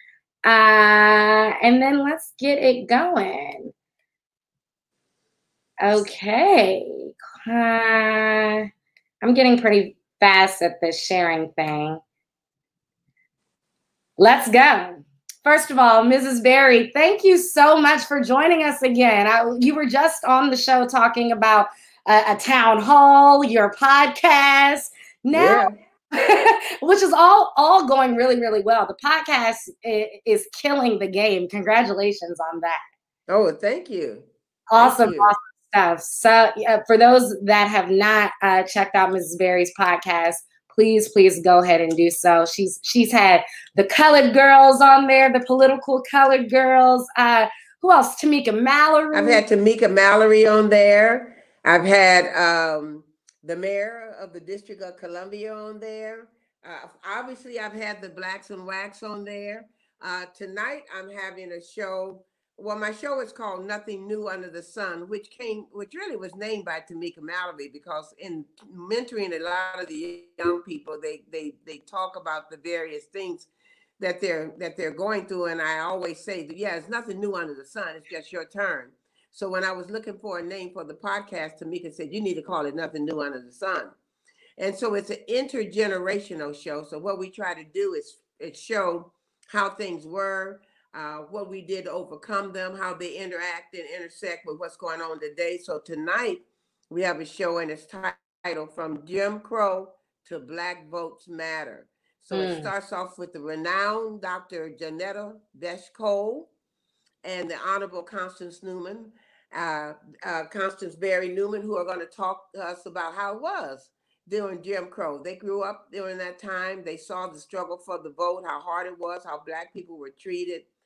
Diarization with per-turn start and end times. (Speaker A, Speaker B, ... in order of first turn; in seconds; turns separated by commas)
Speaker A: 0.5-3.7, Speaker A: 5.8-8.7, Speaker A: 9.2-12.0, Speaker A: 14.2-32.8, Speaker B: 25.3-25.7, Speaker B: 33.3-34.3, Speaker A: 34.7-49.4, Speaker B: 34.8-35.3, Speaker B: 49.1-83.9, Speaker B: 84.6-106.5, Speaker A: 102.3-102.7, Speaker B: 107.2-120.7